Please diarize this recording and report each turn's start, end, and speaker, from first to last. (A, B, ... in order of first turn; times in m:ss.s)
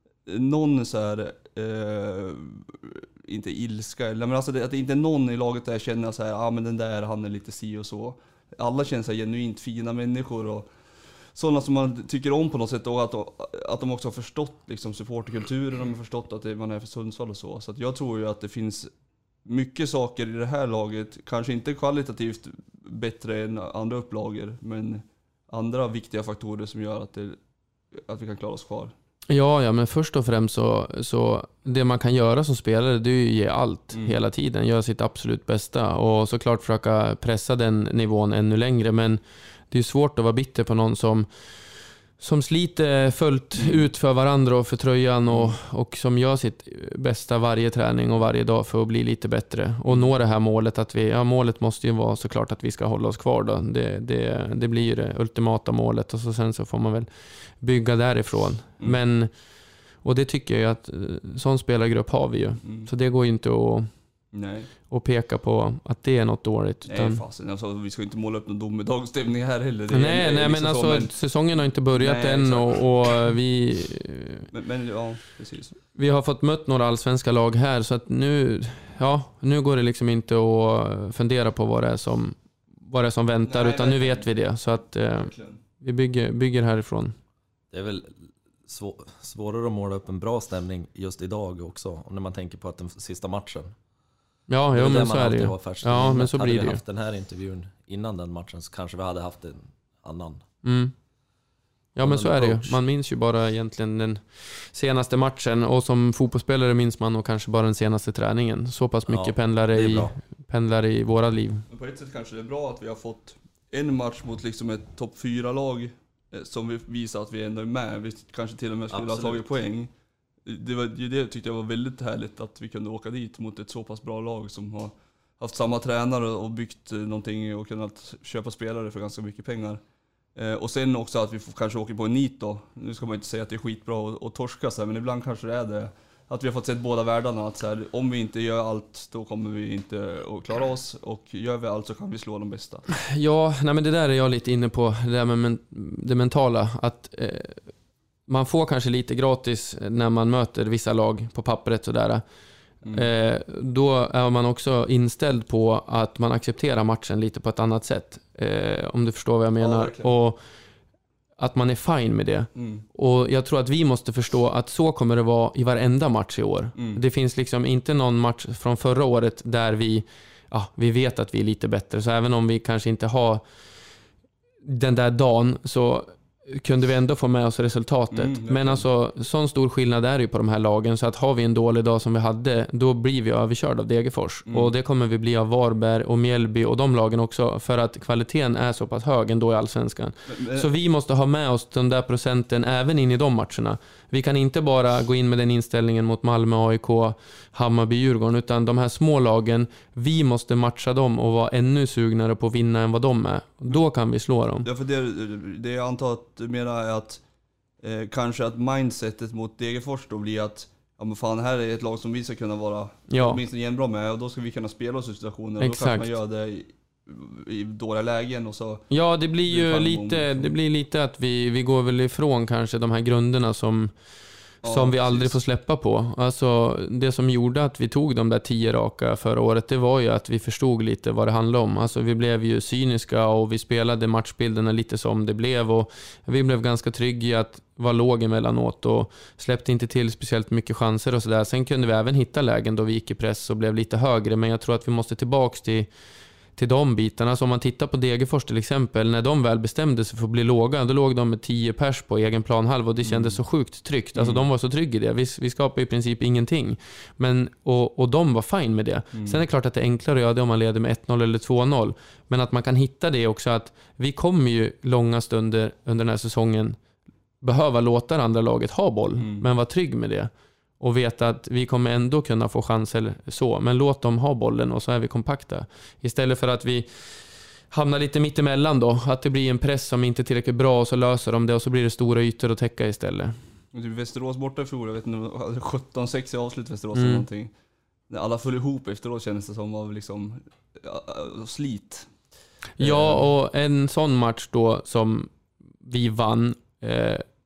0:00.2-0:18.9 A
0:19.4-0:27.4 A
0:27.9-0:28.9 A
0:29.3-1:04.3 B
0:33.9-0:34.2 A
0:43.6-0:43.9 A
0:45.3-0:45.6 A
0:49.8-0:50.2 A
1:02.6-1:02.9 A
1:04.3-1:04.7 A
1:04.9-1:07.2 B
1:06.8-1:11.3 A
1:09.9-1:14.5 B
1:11.9-1:13.1 A
1:14.5-1:15.8 A
1:15.9-1:27.2 B
1:23.4-1:25.6 A
1:27.7-1:33.7 C
1:34.5-1:36.8 B
1:34.7-1:40.4 C
1:40.6-1:41.0 B
1:41.9-1:51.6 B
1:42.0-1:42.8 C
1:49.1-1:50.2 C
1:51.7-1:59.9 A
1:58.9-1:59.6 C
2:00.4-2:09.8 A
2:10.3-2:22.9 A
2:23.1-2:32.2 B
2:32.8-2:40.6 B
2:32.8-2:33.1 A
2:39.6-2:40.1 A
2:41.4-2:54.0 B
2:42.5-2:42.8 A
2:46.7-2:47.0 A
2:54.6-3:24.7 B
2:58.1-2:58.9 A
3:04.4-3:04.7 A
3:10.3-3:10.7 A
3:24.6-3:27.2 A
3:27.8-3:40.5 A
3:33.1-3:33.4 B
3:35.6-3:36.1 B
3:38.9-4:06.0 B
3:44.6-3:45.4 A
4:06.5-4:26.8 B
4:13.0-4:13.5 A
4:14.1-4:14.4 A
4:19.1-4:19.4 A
4:27.4-4:43.6 B
4:29.2-4:29.5 A
4:43.7-4:47.5 A
4:46.9-4:47.2 B
4:48.1-4:52.2 A
4:52.8-4:57.2 B
4:52.8-4:53.3 A